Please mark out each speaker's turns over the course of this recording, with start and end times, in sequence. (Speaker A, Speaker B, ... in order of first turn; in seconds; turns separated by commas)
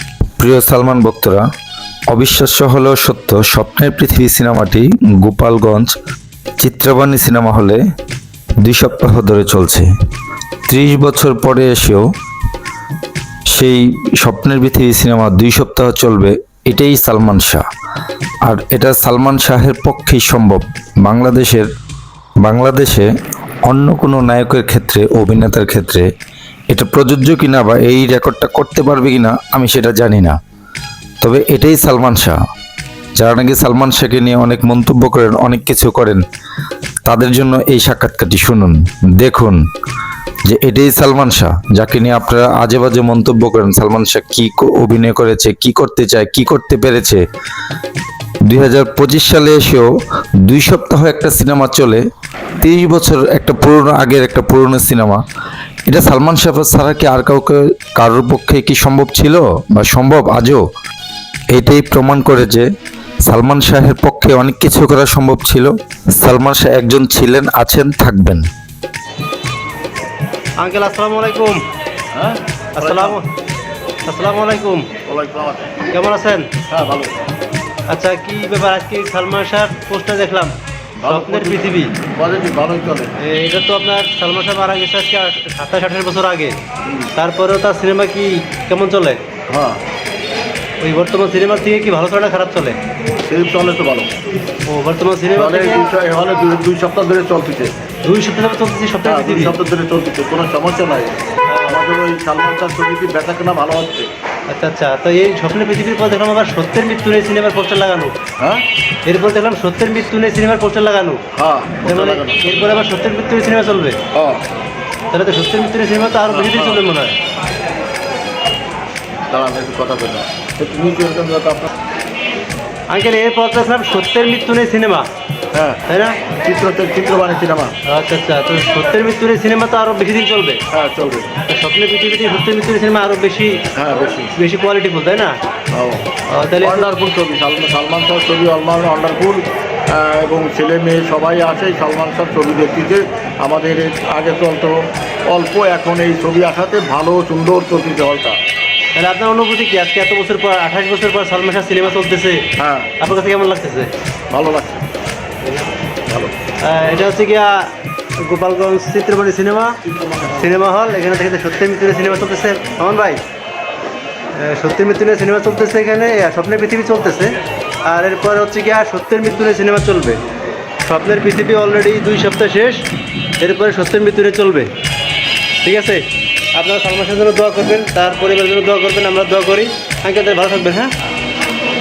Speaker A: 0.4-1.4, Speaker A: 2.1-5.9, Speaker A: 6.6-7.8, Speaker A: 8.6-9.9, Speaker A: 10.7-12.0, Speaker A: 13.5-17.6, Speaker A: 18.5-21.7, Speaker A: 22.4-23.1, Speaker A: 23.7-26.1, Speaker A: 26.7-30.4, Speaker A: 31.2-32.4, Speaker A: 33.2-36.2, Speaker A: 37.1-39.6, Speaker A: 40.5-47.2, Speaker A: 48.5-49.9, Speaker A: 50.5-52.0, Speaker A: 52.6-55.2, Speaker A: 55.9-60.6, Speaker A: 61.5-62.7, Speaker A: 63.3-65.7, Speaker A: 66.2-68.4, Speaker B: 70.6-71.6, Speaker C: 72.1-73.2, Speaker B: 72.8-73.3, Speaker B: 74.1-74.9, Speaker C: 75.0-75.8, Speaker B: 75.9-76.5, Speaker C: 76.7-77.2, Speaker B: 77.9-80.5, Speaker C: 81.0-83.1, Speaker B: 81.0-81.9, Speaker B: 83.2-86.6, Speaker C: 86.8-87.1, Speaker B: 87.2-89.2, Speaker C: 89.5-89.8, Speaker B: 90.8-92.8, Speaker C: 93.3-94.1, Speaker B: 94.7-95.9, Speaker C: 95.4-97.7, Speaker B: 98.0-99.6, Speaker C: 99.1-104.1, Speaker B: 101.5-101.8, Speaker B: 104.5-108.2, Speaker B: 109.1-111.2, Speaker C: 111.3-112.4, Speaker B: 111.9-114.0, Speaker C: 114.1-114.4, Speaker B: 115.1-117.2, Speaker C: 116.3-116.8, Speaker C: 119.3-121.7, Speaker B: 122.9-125.1, Speaker C: 125.5-125.8, Speaker B: 125.9-126.2, Speaker C: 126.4-127.7, Speaker B: 127.9-130.6, Speaker C: 130.7-131.3, Speaker B: 131.5-133.6, Speaker C: 133.7-134.3, Speaker B: 134.4-135.4, Speaker C: 135.7-136.1, Speaker B: 136.3-136.9, Speaker C: 136.6-148.4, Speaker B: 148.9-152.5, Speaker C: 152.6-152.9, Speaker B: 153.0-153.9, Speaker C: 154.3-154.8, Speaker C: 156.1-156.3, Speaker B: 156.6-157.7, Speaker B: 158.2-159.8, Speaker C: 159.9-160.5, Speaker B: 160.3-163.2, Speaker B: 164.3-167.3, Speaker B: 167.9-170.2, Speaker B: 170.8-172.9, Speaker B: 173.4-174.7, Speaker B: 175.6-180.9